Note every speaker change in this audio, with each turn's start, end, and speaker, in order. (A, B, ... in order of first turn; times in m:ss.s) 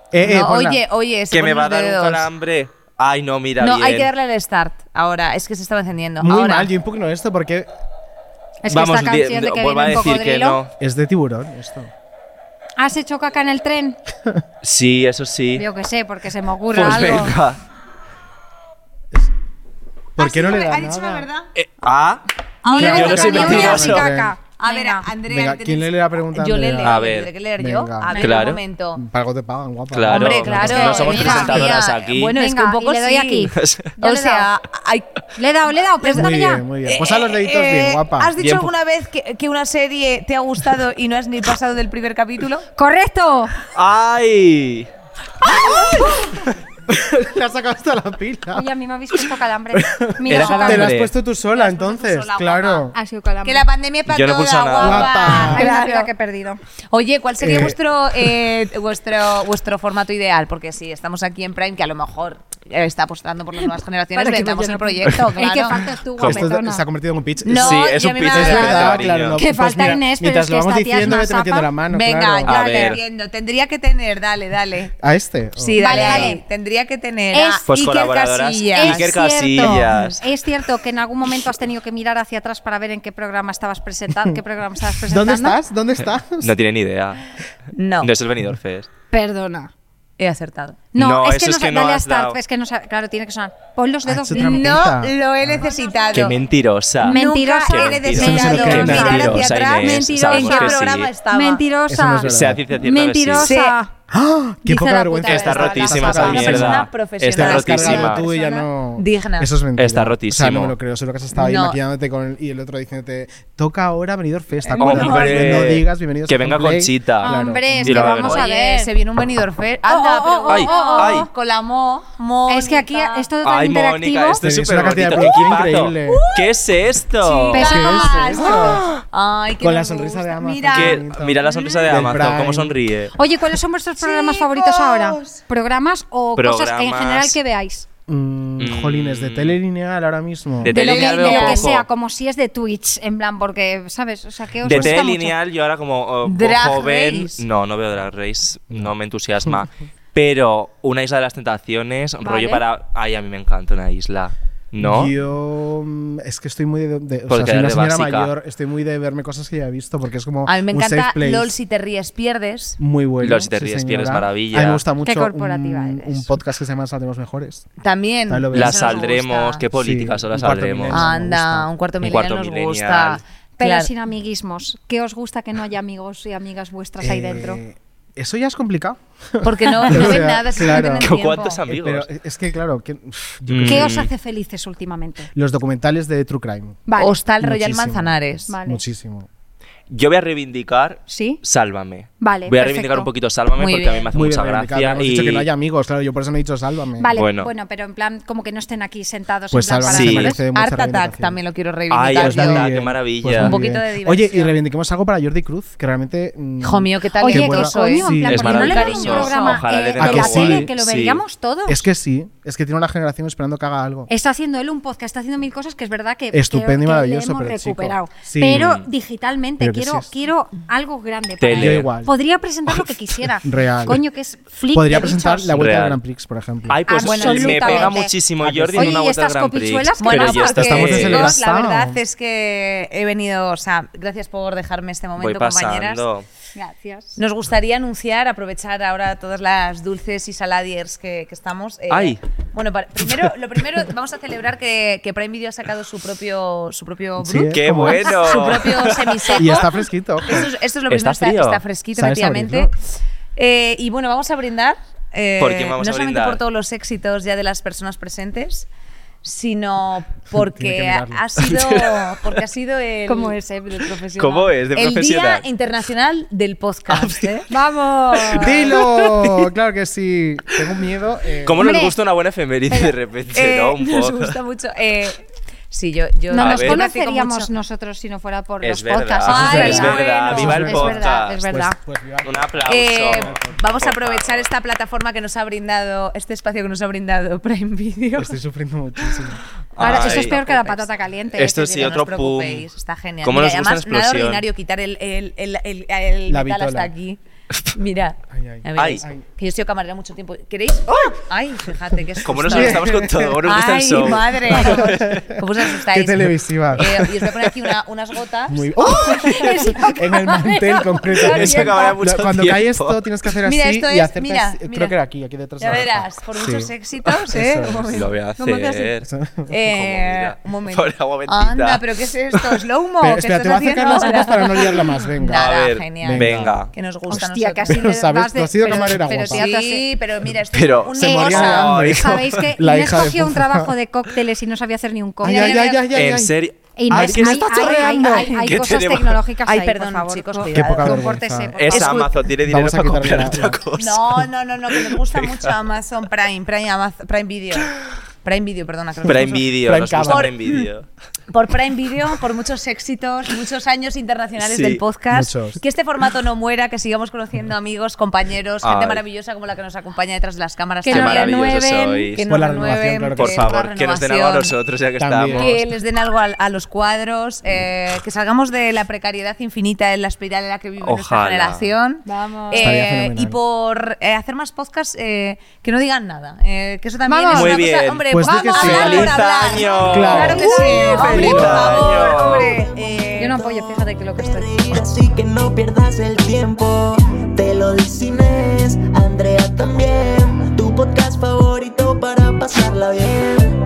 0:00.1-0:00.8 A
0:00.2-0:02.3 B
0:01.3-0:04.1 C
0:03.6-0:06.7 B
0:06.2-0:07.7 A
0:08.6-0:10.6 D
0:08.7-0:10.7 C
0:10.8-0:11.9 A
0:12.8-0:14.0 D
0:14.6-0:15.7 C
0:15.6-0:17.4 D
0:16.7-0:17.6 C
0:20.2-0:21.3 A
0:20.2-0:21.5 B
0:21.6-0:24.1 C
0:22.6-0:23.9 B
0:22.7-0:25.1 D
0:22.8-0:24.3 A
0:24.6-0:29.0 B
0:25.3-0:27.0 A
0:26.8-0:27.3 C
0:27.6-0:28.2 A
0:28.2-0:28.6 C
0:29.0-0:31.3 A
0:29.9-0:32.4 C
0:30.1-0:35.2 B
0:30.4-0:31.7 D
0:32.3-0:34.5 D
0:33.6-0:33.9 C
0:35.4-0:36.6 D
0:36.0-0:36.3 B
0:36.1-0:38.3 A
0:36.8-0:42.7 B
0:38.4-0:38.7 C
0:42.8-0:43.6 D
0:43.7-0:44.9 C
0:45.4-0:46.5 D
0:46.8-0:48.7 A
0:48.5-0:50.9 D
0:49.8-0:53.0 A
0:50.2-0:51.1 C
0:51.5-0:52.9 B
0:52.9-0:53.7 D
0:53.4-0:56.1 B
0:54.1-0:55.6 C
0:54.8-0:55.7 A
0:55.2-0:56.6 D
0:56.9-1:05.8 B
0:57.4-0:57.8 A
1:04.1-1:06.8 D
1:06.2-1:06.5 C
1:06.2-1:12.6 A
1:07.4-1:09.1 B
1:07.5-1:09.4 C
1:09.4-1:11.7 D
1:11.9-1:15.0 B
1:12.4-1:13.0 C
1:12.5-1:13.0 D
1:15.0-1:16.4 A
1:15.6-1:20.2 B
1:15.8-1:16.4 D
1:17.3-1:17.7 D
1:17.7-1:20.2 C
1:18.8-1:25.6 D
1:25.0-1:26.5 A
1:26.4-1:27.2 C
1:27.7-1:28.1 B
1:28.0-1:28.9 C
1:29.1-1:29.7 D
1:30.2-1:30.8 B
1:30.9-1:34.9 D
1:31.0-1:32.4 C
1:34.0-1:35.6 A
1:34.3-1:36.4 B
1:35.5-1:36.4 D
1:36.1-1:41.1 C
1:37.0-1:39.5 D
1:37.0-1:41.6 B
1:38.1-1:39.4 A
1:40.3-1:43.9 D
1:41.9-1:42.6 A
1:42.2-1:43.5 C
1:43.4-1:43.8 B
1:44.1-1:58.2 A
1:44.7-1:46.7 D
1:45.2-1:48.2 C
1:46.1-1:48.3 B
1:47.8-1:48.7 D
1:49.0-1:49.5 B
1:49.8-1:50.7 C
1:51.3-1:51.8 B
1:54.6-1:55.7 B
1:54.8-1:58.4 C
1:57.2-1:58.9 D
1:58.2-2:03.3 B
1:59.9-2:01.3 D
2:00.5-2:01.3 C
2:02.5-2:04.4 D
2:03.4-2:07.9 C
2:04.4-2:06.2 A
2:06.1-2:06.5 B
2:07.2-2:11.8 B
2:07.4-2:08.8 D
2:07.6-2:08.9 A
2:09.6-2:12.8 A
2:10.7-2:13.1 C
2:13.2-2:17.9 D
2:14.0-2:15.2 B
2:16.4-2:17.4 C
2:18.1-2:20.8 A
2:18.6-2:19.6 C
2:20.6-2:21.9 C
2:20.6-2:21.8 B
2:20.7-2:25.4 D
2:24.6-2:35.1 C
2:24.7-2:25.0 A
2:26.2-2:27.4 B
2:32.2-2:32.6 B
2:34.8-2:41.5 A
2:37.3-2:38.3 C
2:40.5-2:42.8 B
2:42.8-2:47.7 A
2:43.2-2:44.8 C
2:45.0-2:46.3 D
2:47.8-2:49.6 B
2:48.3-2:49.0 A
2:48.5-2:51.1 C
2:49.7-2:51.7 A
2:50.9-2:53.9 B
2:52.0-2:53.2 C
2:53.6-2:57.6 D
2:57.0-3:04.1 A
2:59.4-3:01.6 B
3:01.0-3:02.1 C
3:03.5-3:04.1 C
3:03.7-3:05.3 D
3:05.3-3:06.9 A
3:06.9-3:07.1 D
3:07.0-3:08.5 B
3:07.4-3:09.3 A
3:08.5-3:08.8 D
3:09.9-3:15.5 C
3:11.1-3:11.4 D
3:12.2-3:13.1 D
3:13.6-3:14.1 B
3:14.1-3:17.2 A
3:17.0-3:20.4 D
3:17.1-3:17.5 C
3:19.5-3:21.4 A
3:19.8-3:20.4 C
3:20.5-3:22.7 B
3:21.9-3:23.6 C
3:22.1-3:28.9 A
3:23.3-3:24.6 B
3:26.6-3:29.6 B
3:27.2-3:31.8 D
3:28.3-3:31.2 C
3:30.0-3:30.7 A
3:31.7-3:34.1 A
3:34.1-3:45.6 D
3:36.3-3:38.8 A
3:38.5-3:38.9 C
3:39.6-3:40.1 A
3:41.4-3:41.9 C
3:41.5-3:42.1 A
3:43.4-3:44.0 A
3:44.7-3:46.8 A
3:45.5-3:46.0 C
3:46.7-3:51.4 C
3:46.9-3:48.1 D
3:47.0-3:48.0 B
3:48.4-3:49.0 A
3:48.7-3:52.0 D
3:50.0-3:56.0 B
3:50.5-3:52.0 A
3:55.2-3:56.3 C
3:56.6-3:57.2 D
3:57.2-4:12.7 B
4:01.9-4:02.2 C
4:07.2-4:08.6 A
4:07.5-4:09.4 C
4:09.4-4:10.4 A
4:10.9-4:11.6 C
4:12.0-4:12.7 A
4:13.4-4:18.7 B
4:15.4-4:16.4 C
4:19.2-4:23.4 B
4:20.4-4:21.3 A
4:21.4-4:22.3 C
4:23.1-4:24.4 D
4:24.2-4:25.4 C
4:24.2-4:27.5 B
4:26.9-4:27.4 C
4:27.5-4:28.8 D
4:28.1-4:29.5 C
4:28.4-4:31.8 A
4:31.4-4:34.4 C
4:31.6-4:32.0 D
4:32.7-4:33.0 D
4:33.3-4:37.5 B
4:36.3-4:41.8 D
4:36.3-4:36.8 C
4:38.6-4:41.5 C
4:39.3-4:40.6 B
4:39.4-4:43.6 A
4:42.2-4:44.5 C
4:42.6-4:48.4 B
4:48.2-4:49.4 A
4:49.8-4:52.7 C
4:49.8-4:51.8 D
4:50.0-4:50.4 B
4:51.5-5:09.7 B
4:53.2-4:54.4 C
4:56.3-4:56.9 A
4:58.3-4:59.2 A
4:58.8-4:59.0 C
5:02.2-5:05.2 C
5:02.5-5:03.4 A
5:04.4-5:07.0 A
5:08.5-5:16.7 A
5:08.8-5:12.0 D
5:11.2-5:13.2 C
5:13.4-5:15.0 B
5:15.6-5:18.1 B
5:17.3-5:18.0 A
5:17.9-5:22.6 C
5:18.4-5:18.9 D
5:19.0-5:19.5 A
5:19.5-5:27.8 B
5:23.0-5:25.5 A
5:25.3-5:26.7 C
5:26.0-5:26.6 A
5:27.1-5:29.9 D
5:27.7-5:29.5 A
5:29.2-5:31.7 B
5:30.5-5:32.5 C
5:30.9-5:33.7 A
5:31.1-5:35.8 D
5:35.2-5:36.4 A
5:35.2-5:35.9 B
5:35.9-5:39.2 C
5:36.8-5:42.0 D
5:36.9-5:38.3 A
5:38.0-5:38.6 B
5:39.4-5:41.2 B
5:40.4-5:41.6 A
5:41.6-5:45.5 C
5:41.7-5:42.1 B
5:42.4-5:43.6 A
5:43.8-5:47.7 B
5:48.2-5:50.7 B
5:49.1-5:50.9 C
5:49.6-5:50.3 A
5:51.3-6:01.4 B
5:54.4-5:54.8 C
5:55.1-5:55.6 A
5:58.6-5:59.0 C
6:00.8-6:02.1 D
6:00.9-6:02.2 C
6:02.1-6:04.5 B
6:02.3-6:03.5 A
6:03.2-6:05.6 C
6:05.0-6:05.6 A
6:05.3-6:23.5 B
6:10.8-6:11.7 C
6:12.1-6:12.8 D
6:12.6-6:13.4 A
6:17.1-6:17.7 D
6:17.3-6:22.6 C
6:18.1-6:19.2 A
6:19.9-6:21.8 A
6:20.1-6:24.6 D
6:24.2-6:33.6 E